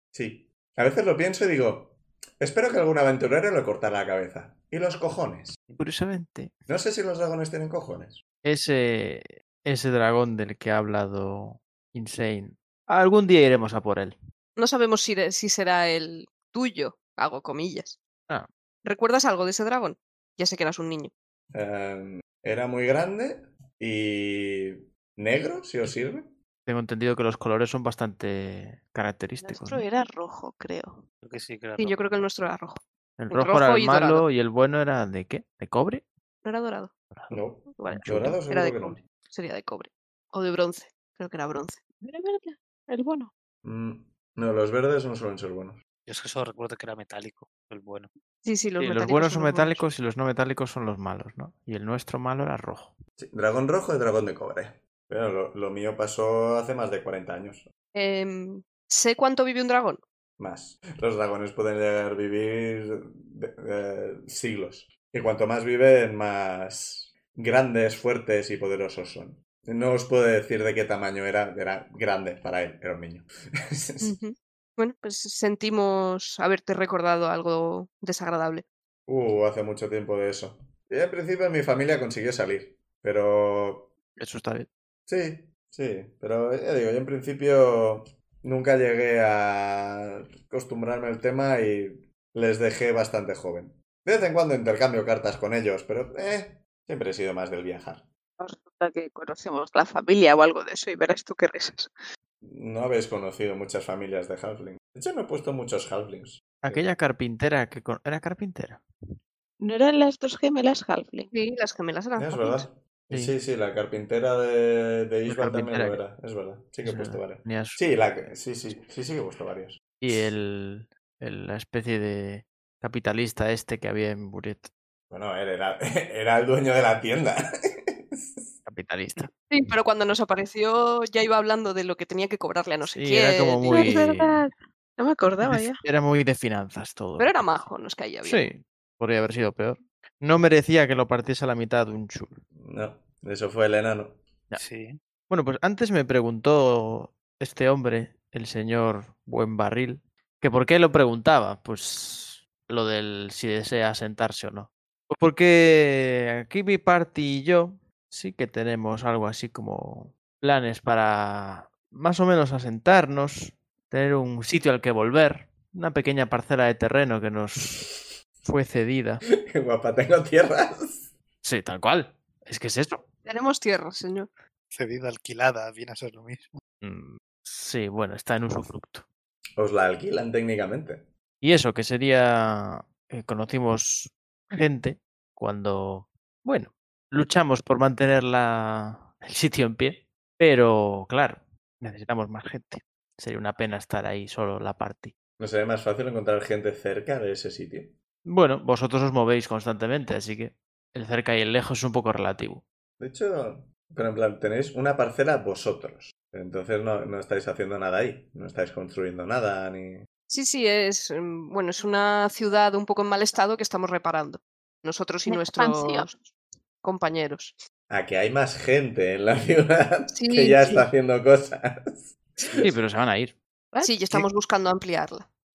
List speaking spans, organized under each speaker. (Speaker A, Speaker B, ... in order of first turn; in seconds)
Speaker A: 0.1-5.6, 6.7-8.2, 21.5-26.3, 37.3-39.0, 43.6-45.8, 53.2-57.7, 60.4-74.2, 79.1-83.9, 85.1-98.1, 102.4-106.9, 112.2-120.3, 125.1-128.5, 142.6-144.3, 169.5-171.1, 179.6-181.1, 195.4-197.9, 203.0-210.1, 217.9-222.7
Speaker B: 5.8-6.6, 8.4-14.2, 26.7-29.9, 33.2-36.1, 37.1-38.4, 48.8-53.0, 84.2-84.7, 106.6-108.8, 115.3-116.0, 116.8-117.9, 120.0-124.7, 128.7-129.3, 132.9-134.4, 135.4-137.4, 138.2-142.4, 145.3-167.9, 168.4-169.2, 171.4-173.1, 176.8-179.1, 181.4-195.2, 198.2-202.6, 222.6-223.4
Speaker C: 14.6-18.0, 18.8-21.1, 31.8-34.2, 36.4-36.9, 37.8-41.8, 48.5-49.9, 57.9-60.0, 74.0-78.7, 111.3-112.7, 129.5-133.9, 137.2-138.4, 173.2-174.3, 210.3-216.3, 216.8-217.6, 220.1-220.7, 223.8-225.3
Speaker D: 29.4-31.0, 42.0-43.3, 98.4-101.9, 109.6-111.3, 133.7-135.8, 215.3-216.1, 223.7-224.0
Speaker E: 31.2-32.2, 46.1-48.1, 144.6-145.0, 174.7-176.6